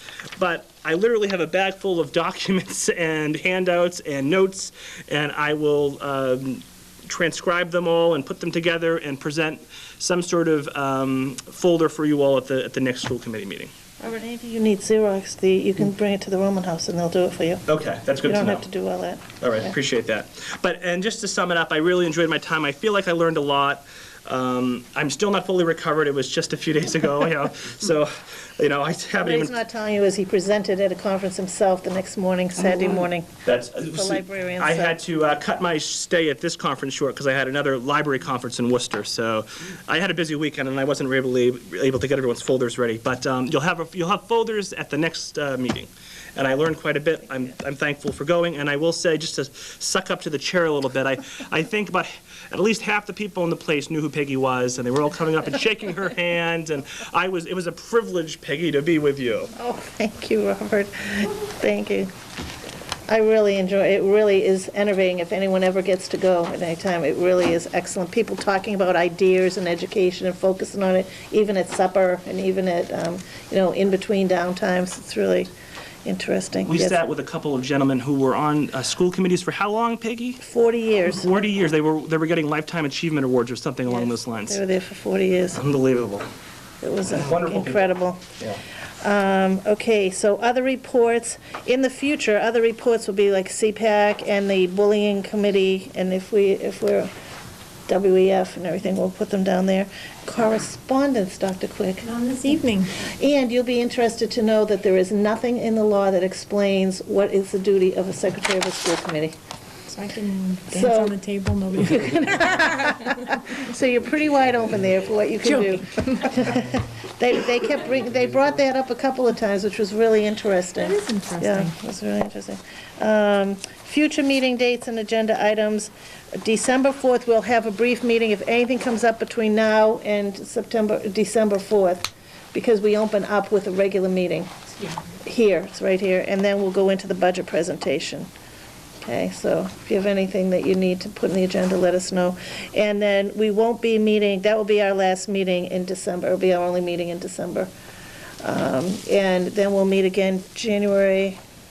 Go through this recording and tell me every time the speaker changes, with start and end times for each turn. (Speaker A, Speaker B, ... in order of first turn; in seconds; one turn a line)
Speaker A: 0.4-13.7
Speaker B: 14.0-17.6
Speaker A: 17.7-18.7
Speaker B: 18.2-19.7
Speaker A: 19.4-29.6
Speaker B: 29.2-33.3
Speaker A: 33.5-59.5
Speaker B: 33.9-35.0
Speaker B: 59.5-62.1
Speaker B: 63.1-75.5
Speaker B: 76.0-77.1
Speaker A: 76.7-80.4
Speaker B: 80.4-81.3
Speaker A: 81.1-84.6
Speaker B: 84.0-85.6
Speaker A: 85.5-86.3
Speaker B: 86.8-88.2
Speaker A: 87.1-88.6
Speaker B: 89.0-97.1
Speaker B: 97.9-102.1
Speaker C: 102.1-102.9
Speaker B: 102.9-109.3
Speaker C: 109.9-112.6
Speaker B: 110.7-111.2
Speaker B: 111.9-134.5
Speaker C: 120.8-121.7
Speaker B: 135.2-138.3
Speaker B: 139.0-147.7
Speaker B: 148.4-151.4